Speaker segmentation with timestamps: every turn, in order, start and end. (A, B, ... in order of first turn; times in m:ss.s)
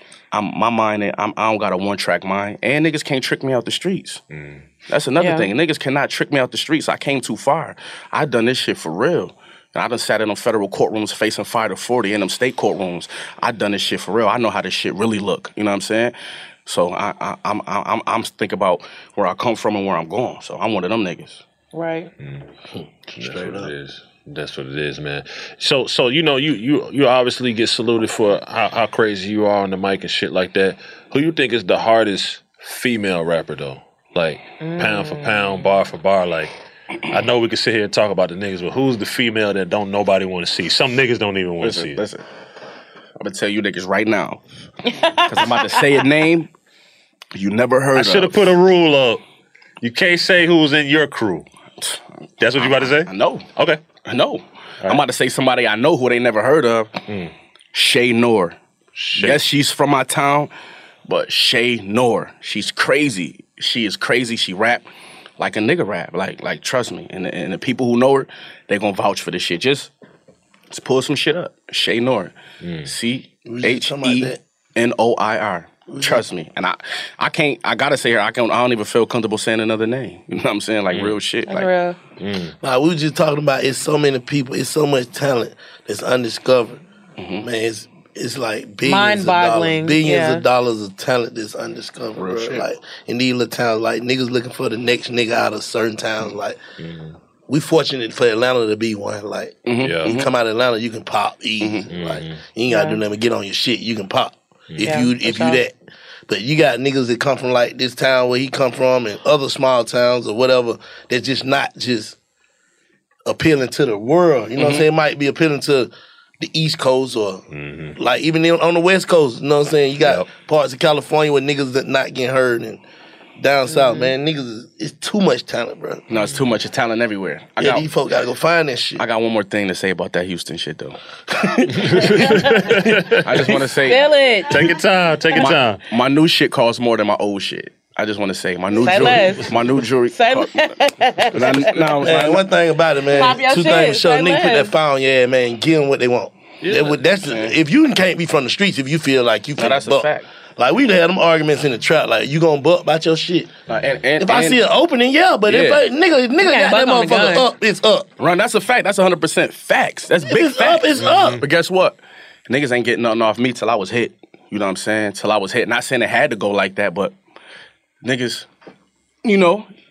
0:00.3-0:04.2 A
0:04.3-0:04.6 B
0:04.9-0:21.4 A
0:05.2-0:05.5 C
0:21.7-0:22.1 C
0:22.2-0:22.5 B
0:22.7-0:23.7 D
0:23.2-0:36.5 B
0:34.6-0:35.7 C
0:37.1-0:42.0 B
0:41.6-0:42.2 A
0:43.2-0:44.4 A
0:44.9-0:46.0 C
0:45.3-0:46.5 A
0:47.3-0:48.4 A
0:47.9-0:49.2 B
0:49.8-0:51.5 B
0:52.4-0:53.8 B
0:52.5-0:53.4 A
0:54.0-0:56.9 A
0:57.7-0:58.6 A
0:59.0-0:59.4 B
0:59.2-1:00.5 A
1:01.0-1:04.8 A
1:05.4-1:09.9 A
1:10.7-1:21.7 A
1:12.6-1:12.9 B
1:13.4-1:14.4 D
1:15.9-1:16.2 D
1:20.9-1:21.2 B
1:21.5-1:22.0 C
1:22.2-1:22.6 B
1:22.6-1:26.8 D
1:27.2-1:27.4 A
1:27.4-1:36.6 D
1:28.8-1:30.4 C
1:32.2-1:32.6 A
1:36.8-1:37.1 B
1:37.5-1:45.7 D
1:39.6-1:40.3 A
1:39.8-1:40.2 B
1:41.6-1:41.9 A
1:41.9-1:42.4 B
1:42.7-1:43.0 C
1:44.7-1:45.0 B
1:44.8-1:45.6 C
1:46.3-1:52.2 D
1:53.2-1:57.4 D
1:57.5-1:58.0 B
1:58.0-2:02.8 D
2:03.4-2:06.0 D
2:03.7-2:04.1 C
2:06.1-2:07.8 A
2:06.1-2:06.5 B
2:07.6-2:09.0 D
2:09.0-2:11.0 A
2:11.3-2:13.4 D
2:11.8-2:13.4 B
2:13.2-2:14.0 A
2:13.8-2:15.5 C
2:14.5-2:15.8 B
2:15.4-2:20.6 A
2:18.8-2:19.5 C
2:18.8-2:19.1 D
2:19.0-2:19.3 B
2:20.1-2:22.2 C
2:21.3-2:22.4 A
2:22.0-2:33.6 D
2:23.1-2:24.7 C
2:26.6-2:27.1 B
2:27.2-2:27.5 A
2:29.6-2:30.3 A
2:33.7-2:34.0 B
2:33.7-2:34.6 A
2:34.2-2:38.1 D
2:35.5-2:35.8 A
2:36.4-2:37.4 C
2:38.2-2:47.1 A
2:40.3-2:41.4 D
2:41.0-2:41.4 B
2:48.0-2:48.5 A
2:49.2-2:49.7 A